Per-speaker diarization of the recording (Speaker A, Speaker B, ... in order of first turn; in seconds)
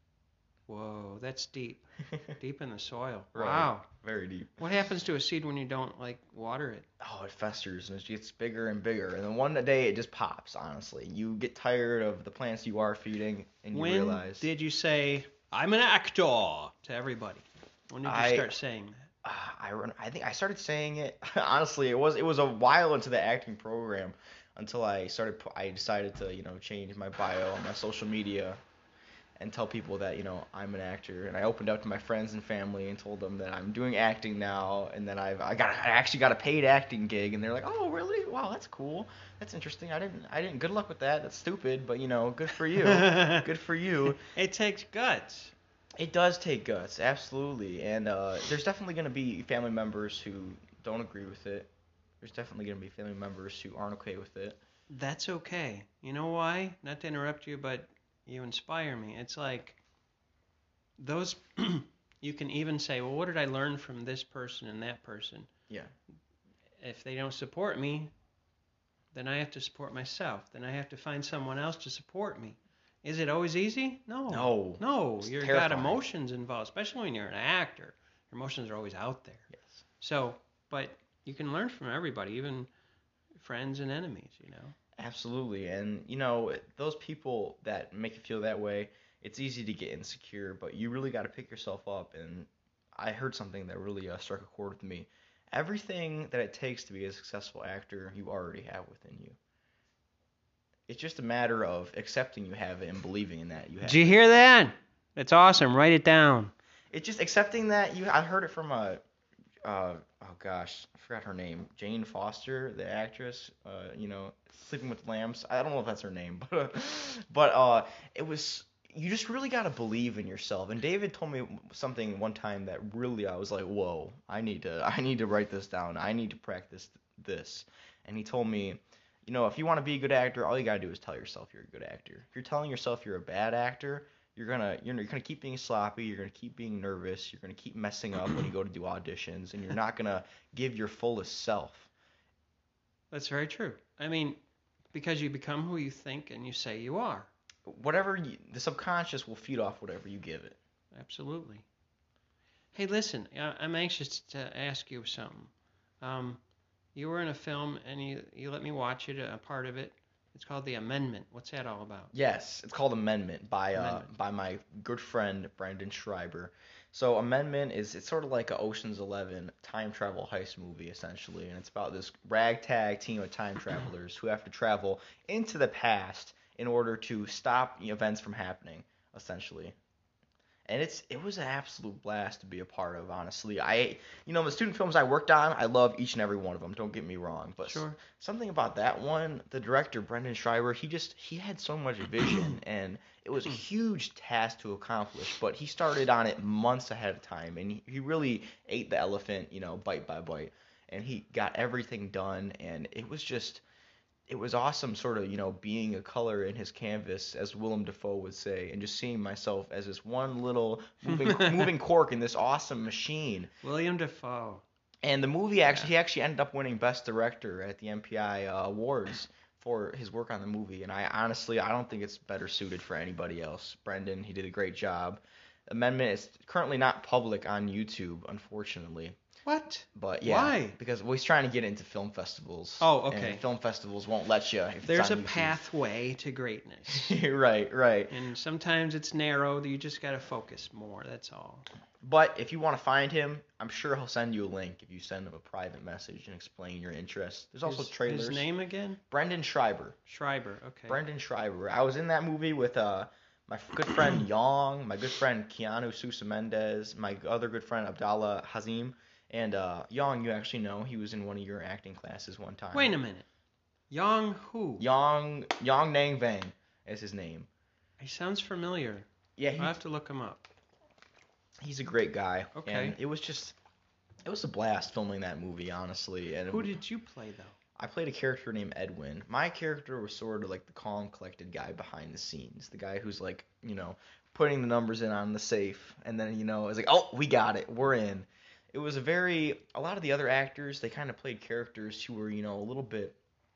Speaker A: 0.7-3.9, 4.6-6.9, 13.7-19.1, 42.8-43.5, 44.2-45.5, 54.9-59.8, 61.0-65.5, 66.8-68.1, 69.1-82.7, 83.4-84.8, 103.8-106.5, 143.1-144.4, 144.9-147.3, 150.9-151.6, 152.7-156.4, 156.9-162.1, 163.8-164.1, 187.6-188.0, 211.1-211.7, 213.6-214.6, 229.4-230.8, 232.8-233.4, 234.8-237.2, 238.1-241.7, 247.6-249.0, 250.1-251.0, 262.7-263.2, 263.9-264.9, 268.0-270.4, 272.5-273.0, 276.5-277.5
Speaker B: 3.3-4.7, 7.0-14.4, 18.0-18.5, 19.2-28.6, 29.4-44.2, 46.0-51.7, 52.2-54.6, 74.3-76.0, 85.0-99.4, 100.9-104.1, 106.9-109.0, 109.6-141.9, 147.7-150.6, 162.1-179.8, 180.7-203.6, 204.3-213.5, 215.0-229.2, 229.9-235.6, 236.9-238.1, 242.0-248.5, 249.1-250.0, 250.9-263.0, 264.8-267.5, 269.4-269.8, 271.6-273.6, 274.2-276.8, 277.8-293.2